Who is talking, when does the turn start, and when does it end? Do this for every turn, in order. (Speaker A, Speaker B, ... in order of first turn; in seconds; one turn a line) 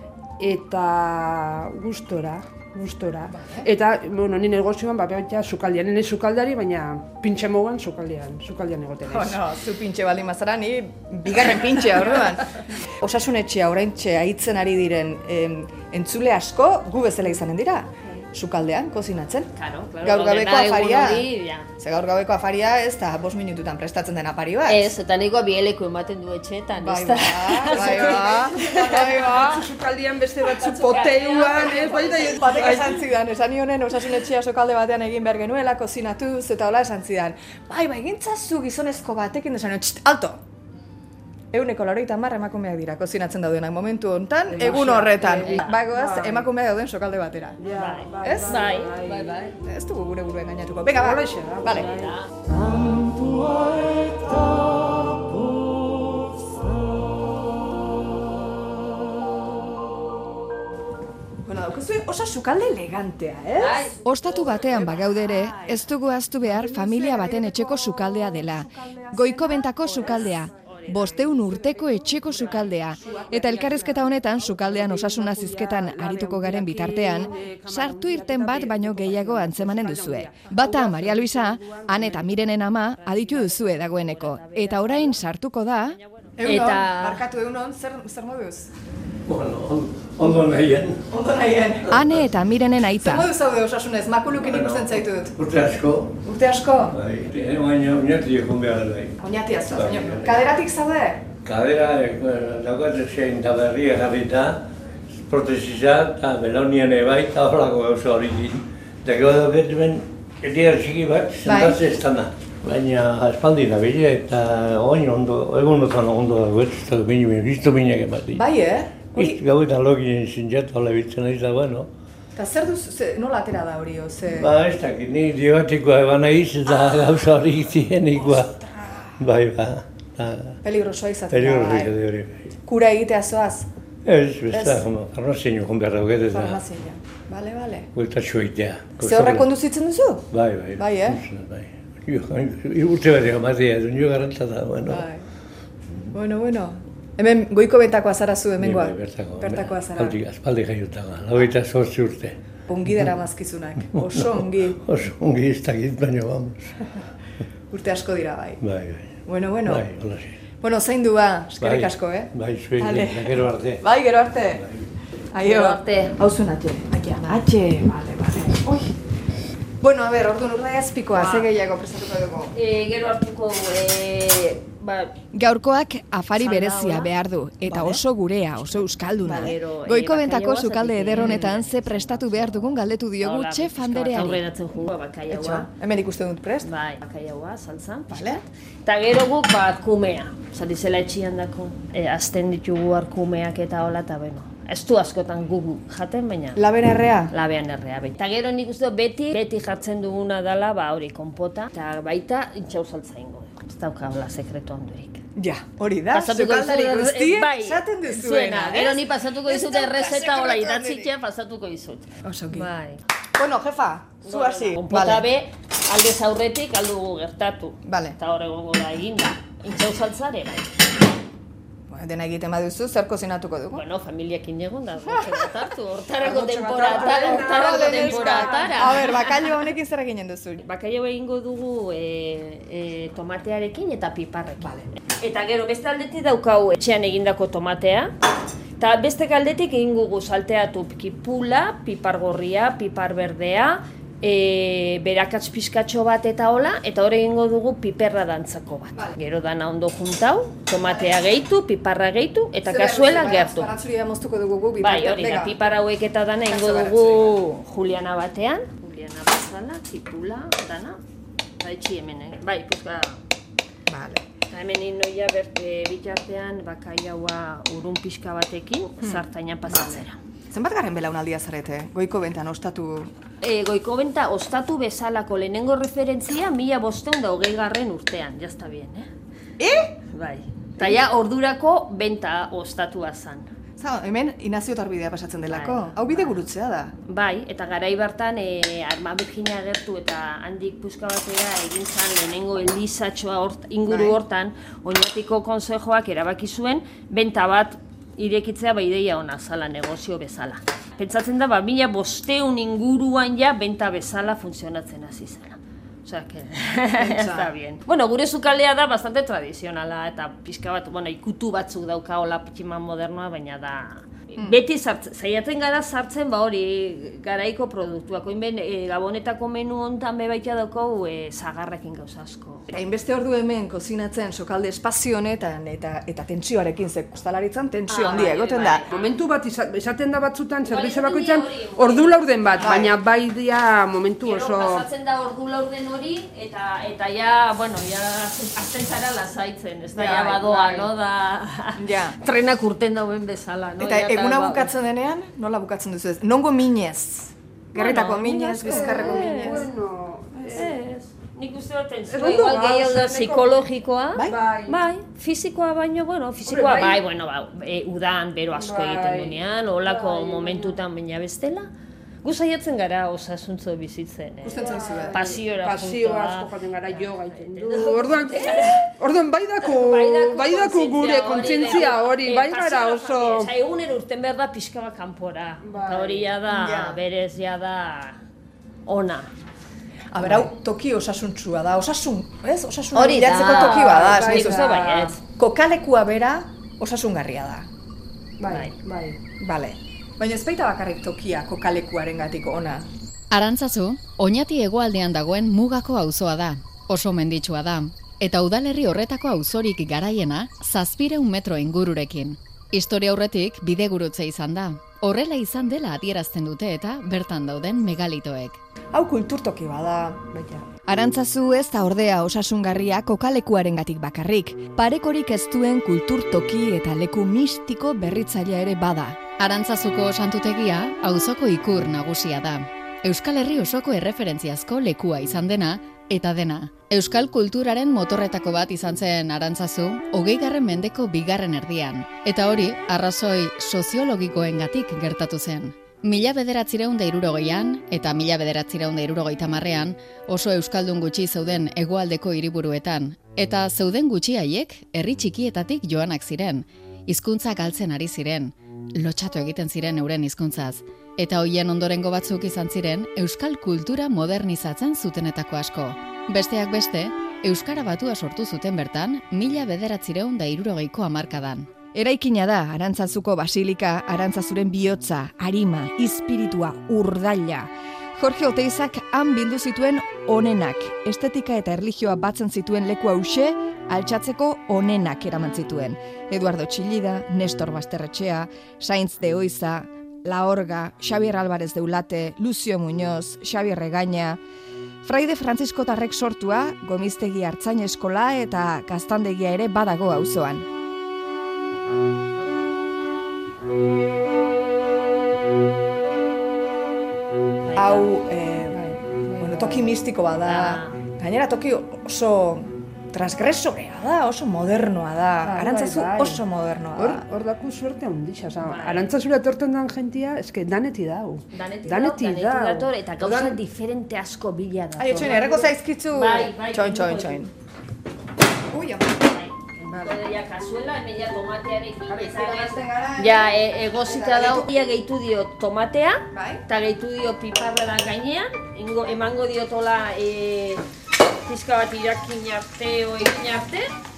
Speaker A: 0.4-9.4
Speaker B: 3.3-3.6
Speaker B: 9.1-19.5
Speaker C: 19.6-21.7
Speaker B: 20.0-21.3
Speaker B: 21.8-24.9
Speaker C: 24.7-28.5
Speaker B: 26.8-29.6
Speaker A: 27.7-33.0
Speaker B: 30.5-40.4
Speaker C: 30.7-32.3
Speaker B: 41.5-47.5
Speaker A: 44.5-46.5
Speaker C: 45.5-45.7
Speaker A: 47.6-49.3
Speaker C: 47.7-49.5
Speaker B: 48.2-48.5
Speaker B: 49.6-51.9
Speaker A: 51.0-52.2
Speaker C: 51.9-52.2
Speaker B: 61.4-63.9
Speaker C: 63.6-65.0
Speaker D: 64.0-86.0
Speaker B: 64.8-65.8
Speaker B: 66.4-70.3
Speaker C: 69.8-73.2
Speaker B: 73.0-73.7
Speaker A: 73.7-82.3
Speaker C: 83.0-85.2
Speaker C: 86.0-87.2
Speaker B: 86.4-88.7
Speaker E: 89.3-91.0
Speaker B: 91.1-91.9
Speaker D: 91.9-93.3
Speaker B: 93.0-95.3
Speaker E: 94.4-96.1
Speaker B: 96.2-96.9
Speaker E: 96.9-99.1
Speaker B: 99.2-101.2
Speaker E: 99.7-100.4
Speaker E: 101.5-104.6
Speaker E: 105.3-118.4
Speaker B: 111.5-111.8
Speaker B: 118.3-119.4
Speaker E: 119.1-121.9
Speaker B: 122.3-124.5
Speaker E: 124.4-128.5
Speaker B: 128.2-129.1
Speaker E: 129.2-130.6
Speaker B: 130.6-131.9
Speaker E: 131.3-132.4
Speaker B: 132.7-133.7
Speaker E: 134.1-136.6
Speaker B: 134.5-134.8
Speaker B: 136.3-137.9
Speaker E: 137.9-139.5
Speaker B: 139.0-140.2
Speaker E: 140.3-145.1
Speaker B: 140.8-141.2
Speaker B: 144.9-145.2
Speaker B: 146.1-150.2
Speaker E: 148.6-152.3
Speaker B: 152.7-154.8
Speaker E: 153.9-156.7
Speaker B: 157.7-158.6
Speaker E: 158.6-159.1
Speaker B: 159.2-159.8
Speaker E: 159.7-160.3
Speaker B: 160.6-164.6
Speaker E: 161.6-163.8
Speaker B: 165.3-168.9
Speaker C: 165.4-166.2
Speaker B: 169.8-172.5
Speaker C: 171.1-171.5
Speaker C: 172.5-175.1
Speaker D: 175.3-184.4
Speaker C: 176.3-177.1
Speaker C: 179.2-185.7
Speaker B: 181.1-181.5
Speaker B: 185.3-186.7
Speaker C: 186.6-196.6
Speaker B: 188.1-188.4
Speaker B: 196.6-197.3
Speaker C: 197.3-205.2
Speaker B: 205.3-211.1
Speaker C: 206.1-213.0
Speaker B: 212.2-212.7
Speaker B: 213.3-215.2
Speaker C: 214.2-220.7
Speaker B: 217.8-218.2
Speaker B: 221.9-223.8
Speaker C: 223.7-229.4
Speaker A: 226.2-229.1
Speaker B: 226.9-230.6
Speaker C: 230.6-238.1
Speaker B: 234.6-234.9
Speaker C: 238.8-253.7
Speaker B: 252.6-255.6
Speaker C: 254.8-261.0
Speaker B: 256.5-257.4
Speaker C: 261.6-263.2
Speaker B: 263.9-264.2
Speaker C: 264.5-270.2
Speaker B: 269.0-270.0
Speaker B: 270.5-273.1
Speaker C: 273.4-279.1
Speaker B: 279.6-279.9
Speaker C: 280.1-283.5
Speaker B: 283.8-286.9
Speaker C: 285.5-286.4
Speaker C: 287.1-322.7
Speaker B: 293.9-294.2
Speaker B: 307.0-307.5
Speaker B: 322.7-328.9
Speaker C: 327.9-329.1
Speaker A: 328.9-334.8
Speaker C: 330.6-332.8
Speaker B: 332.6-332.9
Speaker C: 334.2-344.7
Speaker B: 339.9-340.9
Speaker B: 341.8-342.2
Speaker B: 343.8-349.7
Speaker C: 347.7-349.7
Speaker A: 348.6-350.8
Speaker C: 350.5-361.7
Speaker A: 352.1-353.6
Speaker A: 354.2-354.8
Speaker A: 356.4-357.0
Speaker A: 358.5-360.8
Speaker C: 362.2-368.9
Speaker B: 364.4-365.2
Speaker A: 364.6-373.5
Speaker C: 369.6-378.2
Speaker A: 375.6-376.3
Speaker B: 376.5-377.0
Speaker C: 378.9-379.3
Speaker B: 380.1-387.7
Speaker A: 380.2-380.5
Speaker C: 382.9-385.2
Speaker A: 383.4-385.1
Speaker A: 388.4-389.2
Speaker C: 388.5-388.7
Speaker B: 389.4-392.9
Speaker F: 393.3-408.6
Speaker B: 408.9-410.3
Speaker A: 410.3-410.6
Speaker D: 410.9-419.2
Speaker F: 419.4-461.7
Speaker D: 461.9-484.4
Speaker D: 485.0-490.6
Speaker C: 497.6-498.1
Speaker B: 497.8-498.8
Speaker A: 498.7-499.9
Speaker B: 499.4-507.2
Speaker C: 500.4-501.0
Speaker A: 505.4-506.4
Speaker A: 506.9-513.6
Speaker C: 508.6-509.1
Speaker C: 511.5-517.4
Speaker B: 515.0-517.5
Speaker A: 515.2-515.5
Speaker B: 518.7-519.2
Speaker C: 519.2-530.8
Speaker B: 522.1-524.7
Speaker B: 526.3-526.6
Speaker C: 531.4-533.9